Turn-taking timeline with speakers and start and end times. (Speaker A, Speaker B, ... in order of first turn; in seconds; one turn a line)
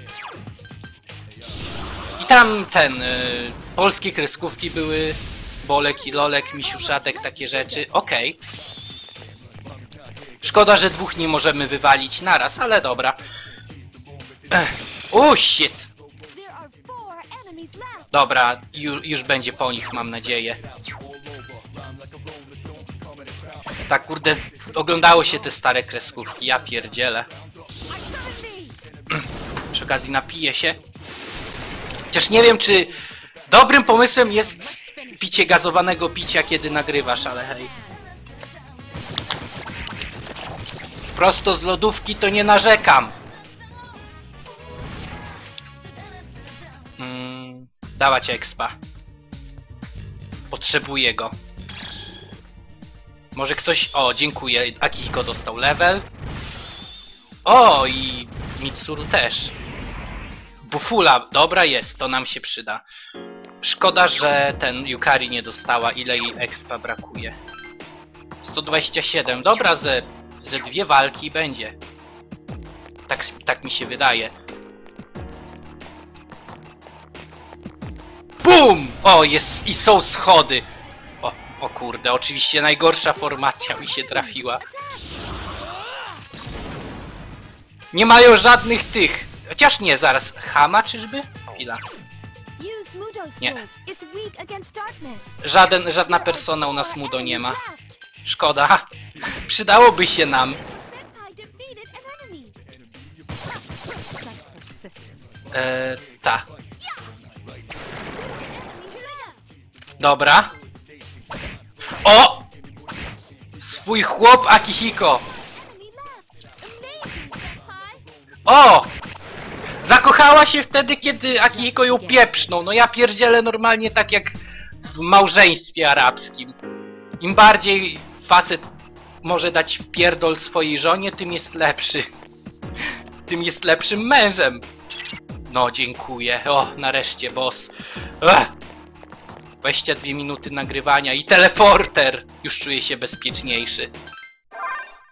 Speaker A: 2.2-8.4
Speaker B: 6.6-7.8
Speaker A: 10.4-13.2
Speaker A: 14.5-15.9
Speaker B: 16.3-18.1
Speaker A: 18.1-20.6
Speaker A: 23.9-27.3
Speaker C: 27.9-28.8
Speaker A: 29.7-30.8
Speaker A: 32.1-33.0
Speaker A: 33.5-37.7
Speaker C: 34.8-35.7
Speaker A: 41.1-43.1
Speaker A: 47.0-48.7
Speaker A: 50.5-51.3
Speaker A: 53.3-56.1
Speaker A: 57.4-59.5
Speaker A: 60.6-62.8
Speaker A: 63.6-67.4
Speaker A: 68.4-71.8
Speaker A: 73.1-74.3
Speaker A: 78.4-80.7
Speaker A: 81.2-84.6
Speaker B: 84.3-85.0
Speaker A: 87.9-91.8
Speaker B: 92.6-95.4
Speaker A: 95.4-97.6
Speaker B: 96.0-98.0
Speaker A: 98.2-100.6
Speaker B: 100.6-102.6
Speaker C: 103.8-105.3
Speaker A: 105.5-106.5
Speaker B: 108.1-109.5
Speaker A: 110.0-110.5
Speaker A: 112.0-112.5
Speaker A: 113.6-115.2
Speaker B: 115.4-118.1
Speaker A: 118.5-118.9
Speaker A: 119.8-126.5
Speaker A: 127.2-128.7
Speaker A: 129.2-132.1
Speaker A: 133.3-134.6
Speaker A: 135.5-138.5
Speaker A: 139.6-143.9